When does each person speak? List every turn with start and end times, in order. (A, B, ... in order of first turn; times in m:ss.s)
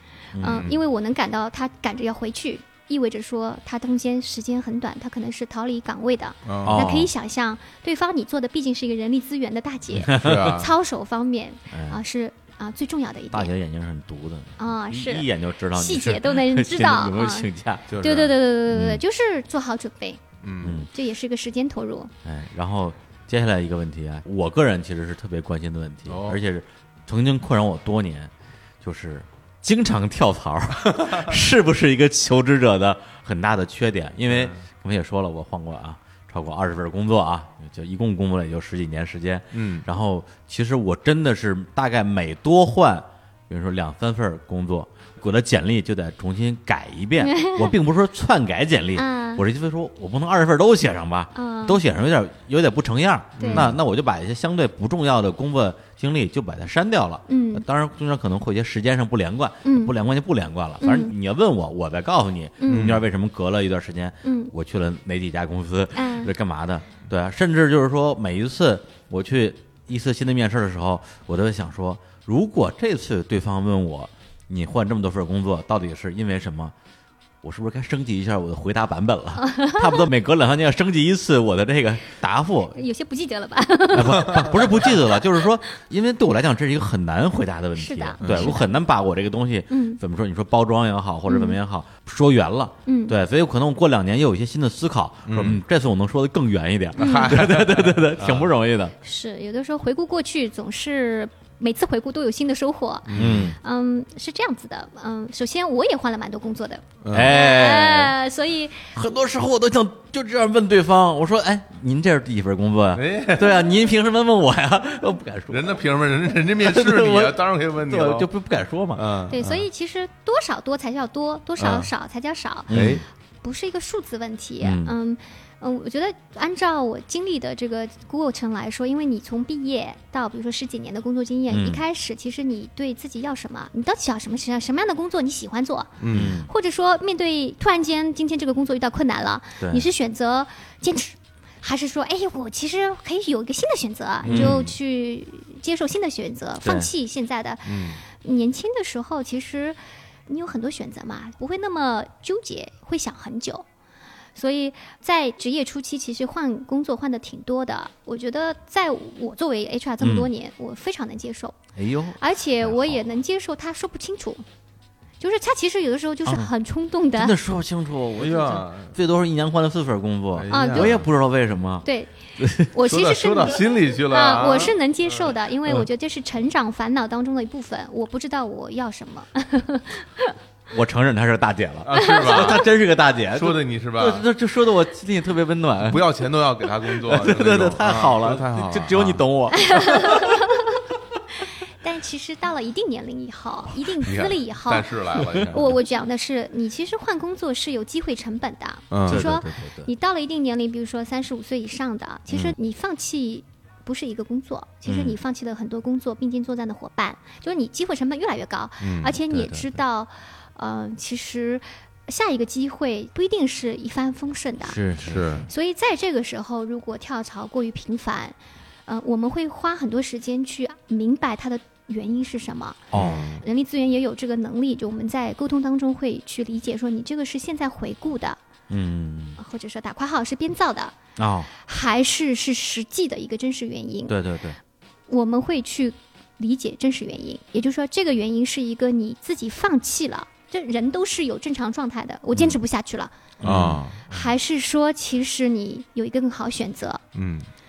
0:00.3-0:00.8 A
0:00.4-0:13.5 B
0:06.5-0:06.9 C
0:06.6-0:07.1 A
0:10.0-0:10.6 A
0:10.1-0:10.7 C
0:11.7-0:12.0 A
0:13.3-0:19.0 A
0:14.6-0:17.5 B
0:17.9-0:18.4 C
0:18.0-0:20.2 B
0:20.4-0:20.9 C
0:20.6-0:20.9 A
0:20.9-0:22.1 B
0:22.2-1:16.7 A
0:26.1-0:26.4 C
0:34.3-0:34.6 C
0:39.5-0:39.9 C
0:47.2-0:47.7 B
0:49.0-0:49.4 B
0:51.4-0:51.8 B
0:53.4-0:53.7 B
0:53.4-0:53.8 C
0:57.3-0:57.6 B
0:59.6-0:59.9 B
1:00.8-1:01.1 B
1:02.6-1:02.9 B
1:02.7-1:03.0 C
1:04.2-1:04.5 B
1:06.0-1:06.3 B
1:17.4-1:22.8 A
1:19.4-1:20.1 B
1:22.8-1:24.9 B
1:23.9-1:39.0 A
1:24.3-1:24.6 C
1:27.8-1:28.7 B
1:28.2-1:28.6 C
1:29.7-1:30.0 B
1:31.3-1:31.6 B
1:32.9-1:33.2 B
1:35.3-1:35.6 C
1:37.0-1:38.5 C
1:37.0-1:37.3 B
1:39.0-1:48.9 B
1:43.1-1:43.5 C
1:43.1-1:43.6 A
1:47.0-1:47.4 C
1:47.1-1:48.2 A
1:48.9-1:55.8 A
1:52.9-1:53.7 C
1:55.5-1:58.3 C
1:56.6-1:59.1 A
1:59.0-1:59.6 C
1:59.3-2:33.7 B
2:01.6-2:01.9 C
2:02.7-2:03.0 A
2:02.7-2:03.0 C
2:04.6-2:04.9 A
2:11.5-2:11.8 A
2:16.0-2:16.4 C
2:16.1-2:16.5 A
2:19.6-2:19.9 A
2:24.2-2:24.7 A
2:24.3-2:24.6 C
2:26.6-2:26.9 A
2:27.7-2:28.0 C
2:34.4-2:41.6 B
2:40.0-2:40.3 A
2:41.8-2:43.0 A
2:42.2-2:44.4 B
2:45.2-2:47.4 B
2:47.1-2:52.7 A
2:48.2-2:49.0 C
2:50.4-2:51.1 C
2:50.5-2:51.0 B
2:51.8-3:00.3 B
2:52.8-2:55.3 C
3:00.7-3:06.1 A
3:01.8-3:02.7 C
3:02.0-3:02.5 B
3:03.3-3:04.3 C
3:05.9-3:09.2 C
3:07.0-3:10.4 A
3:09.6-3:10.7 B
3:11.8-3:34.8 B
3:14.0-3:15.8 C
3:18.9-3:19.3 C
3:19.1-3:19.9 A
3:24.9-3:25.2 A
3:28.8-3:29.2 C
3:29.3-3:29.7 A
3:34.6-3:35.5 A
3:35.1-3:35.5 C
3:35.5-3:38.4 B
3:38.9-3:48.4 B
3:42.9-3:43.3 A
3:42.9-3:43.4 C
3:48.7-3:49.4 A
3:49.4-3:51.0 B
3:51.2-3:51.5 A
3:51.5-3:54.2 B
3:54.1-3:54.6 A
3:55.1-4:03.1 B
4:03.4-4:03.8 A
4:03.4-4:04.3 C
4:04.1-4:07.0 B
4:07.2-4:07.5 C